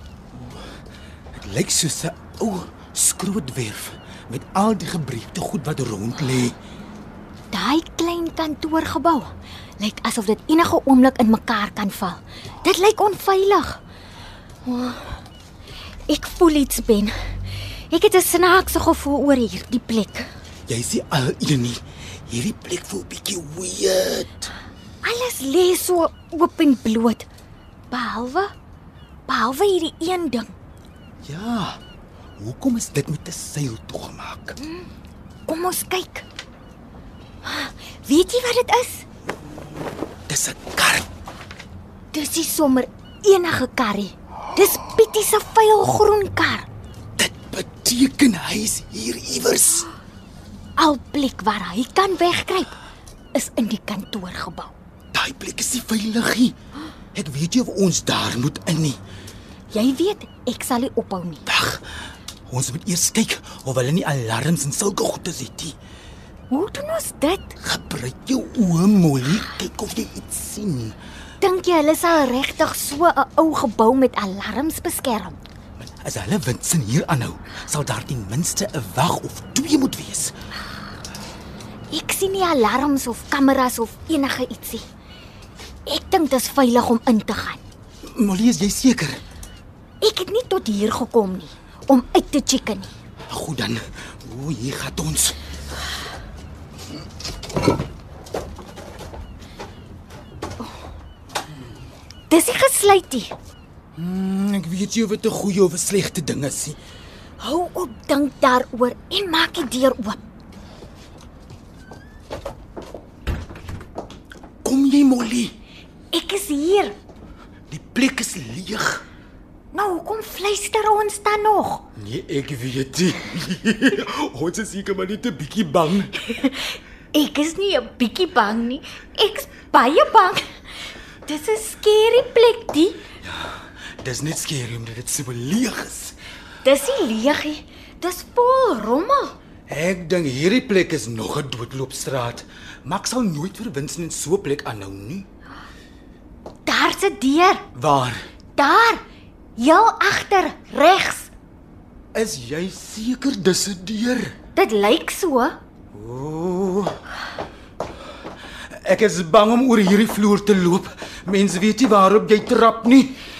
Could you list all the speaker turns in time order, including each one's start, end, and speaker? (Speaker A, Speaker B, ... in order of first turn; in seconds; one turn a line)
Speaker A: 0.3-0.6
Speaker A: 1.3-6.6
Speaker B: 7.5-13.8
Speaker B: 14.7-15.2
Speaker B: 16.1-17.1
Speaker B: 17.9-20.3
Speaker A: 20.7-24.5
Speaker B: 25.0-27.3
Speaker B: 27.9-28.5
Speaker B: 29.3-30.5
Speaker A: 31.2-31.8
Speaker A: 32.4-34.6
Speaker B: 34.6-34.9
Speaker B: 35.5-36.2
Speaker B: 37.4-39.0
Speaker A: 40.3-41.1
Speaker B: 42.1-46.7
Speaker A: 47.2-49.9
Speaker B: 50.8-52.8
Speaker B: 53.3-54.8
Speaker A: 55.1-56.5
Speaker A: 57.1-59.0
Speaker B: 59.7-61.5
Speaker A: 61.5-61.9
Speaker A: 62.5-65.8
Speaker B: 66.5-67.5
Speaker A: 67.6-71.0
Speaker B: 71.4-75.4
Speaker A: 75.8-80.3
Speaker B: 81.9-84.8
Speaker B: 85.8-87.6
Speaker A: 88.1-89.2
Speaker B: 90.0-92.9
Speaker A: 93.3-95.4
Speaker B: 102.3-103.3
Speaker A: 104.0-106.8
Speaker B: 107.4-110.2
Speaker A: 114.6-115.5
Speaker B: 116.1-117.0
Speaker A: 117.7-119.0
Speaker B: 119.7-121.8
Speaker A: 122.0-126.2
Speaker B: 126.3-130.5
Speaker B: 131.2-133.0
Speaker A: 133.2-136.2
Speaker B: 136.6-139.3
Speaker A: 139.7-145.3
Speaker B: 146.7-147.7
Speaker A: 147.8-148.2
Speaker B: 148.6-149.0
Speaker B: 149.6-151.3
Speaker A: 152.1-154.3
Speaker B: 154.5-155.6
Speaker A: 155.9-157.0
Speaker A: 158.7-163.2